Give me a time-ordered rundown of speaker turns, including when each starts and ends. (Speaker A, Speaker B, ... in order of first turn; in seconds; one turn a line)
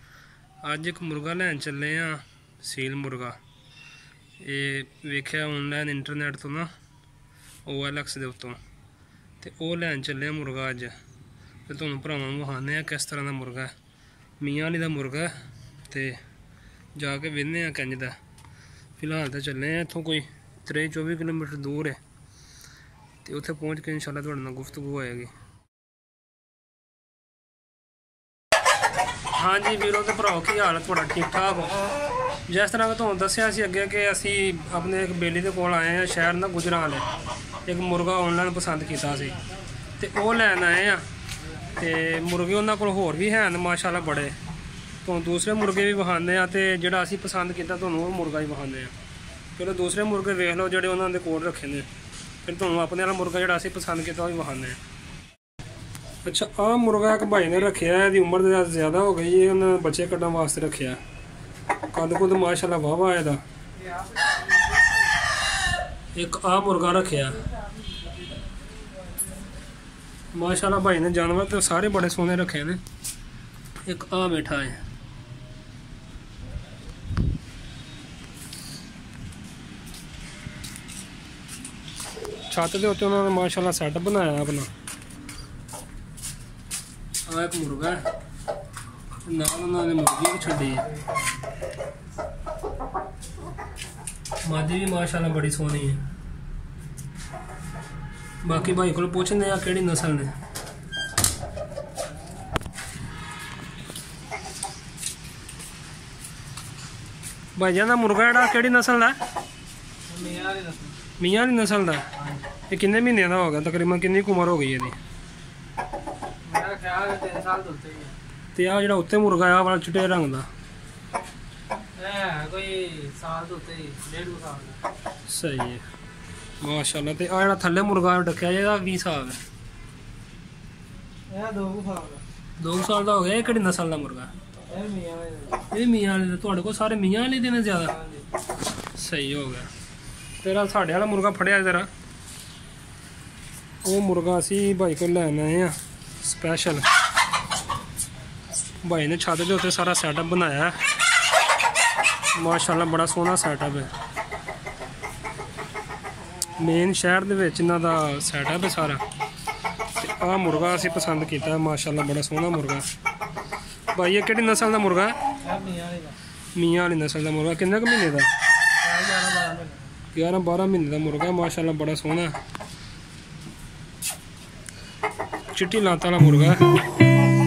Speaker A: 0.6-3.4
Speaker A: 4.4-6.7
Speaker A: 7.6-8.6
Speaker A: 9.4-10.9
Speaker A: 11.7-13.7
Speaker A: 14.4-15.3
Speaker A: 15.9-16.2
Speaker A: 16.9-18.2
Speaker A: 19.0-22.0
Speaker A: 23.2-25.3
Speaker A: 29.3-31.8
Speaker A: 32.5-37.1
Speaker A: 37.6-39.4
Speaker A: 40.0-41.0
Speaker A: 41.7-44.3
Speaker A: 45.0-48.9
Speaker A: 49.5-51.9
Speaker A: 52.4-54.8
Speaker A: 56.2-61.0
Speaker A: 61.9-63.4
Speaker B: 63.8-64.8
Speaker A: 66.1-67.5
Speaker A: 70.3-72.8
Speaker A: 73.8-74.8
Speaker A: 82.5-84.7
Speaker A: 87.2-88.0
Speaker A: 89.2-90.9
Speaker A: 94.4-96.0
Speaker A: 98.4-100.4
Speaker A: 107.5-109.2
Speaker B: 110.1-111.0
Speaker A: 111.1-115.0
Speaker B: 116.4-118.2
Speaker A: 118.5-120.5
Speaker B: 121.9-124.8
Speaker A: 125.2-125.8
Speaker A: 126.6-129.4
Speaker B: 131.3-132.2
Speaker A: 132.6-134.3
Speaker B: 134.7-135.6
Speaker A: 135.6-137.9
Speaker B: 137.9-138.2
Speaker A: 138.9-139.7
Speaker A: 140.4-141.9
Speaker A: 143.8-146.8
Speaker A: 148.8-150.8
Speaker A: 152.3-153.9
Speaker A: 156.6-159.0
Speaker A: 159.9-162.8
Speaker A: 163.9-165.3
Speaker B: 165.4-166.2
Speaker A: 166.5-168.3
Speaker B: 168.8-169.9
Speaker A: 170.1-172.3
Speaker A: 175.5-176.7